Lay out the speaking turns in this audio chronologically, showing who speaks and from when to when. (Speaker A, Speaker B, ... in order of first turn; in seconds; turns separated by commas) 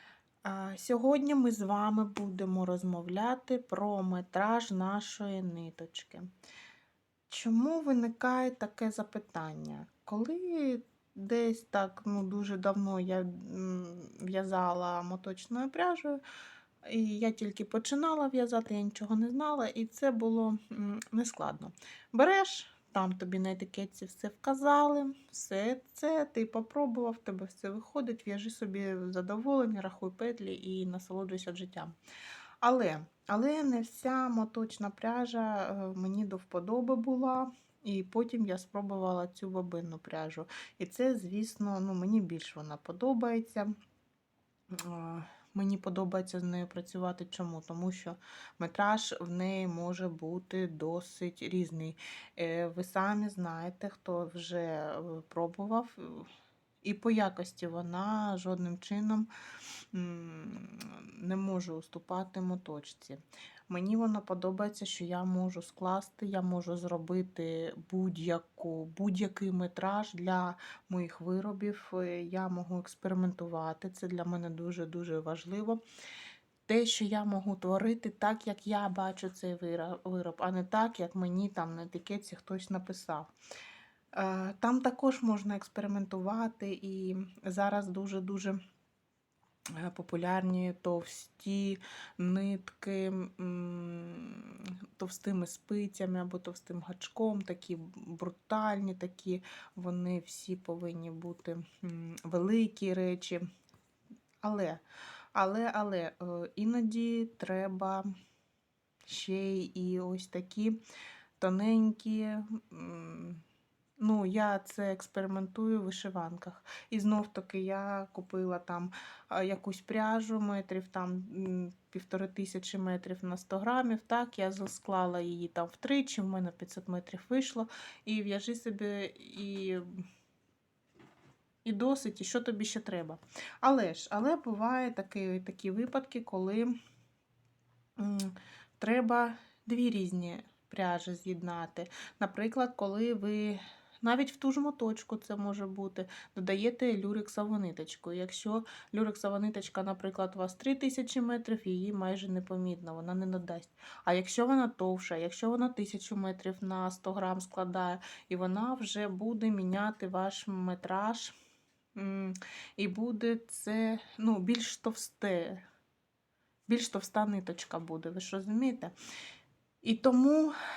Speaker A: 0.4-6.3, Speaker A: 7.3-16.2, Speaker A: 16.9-31.9, Speaker A: 32.6-43.7, Speaker A: 44.7-56.3, Speaker A: 56.8-59.3, Speaker A: 59.9-75.8, Speaker A: 76.7-83.3, Speaker A: 84.1-88.6, Speaker A: 89.8-103.5, Speaker A: 104.4-104.8, Speaker A: 105.3-108.1, Speaker A: 109.1-110.8, Speaker A: 111.4-113.4, Speaker A: 114.0-129.9, Speaker A: 131.7-136.7, Speaker A: 138.0-161.3, Speaker A: 162.0-165.6, Speaker A: 166.7-168.9, Speaker A: 169.8-170.5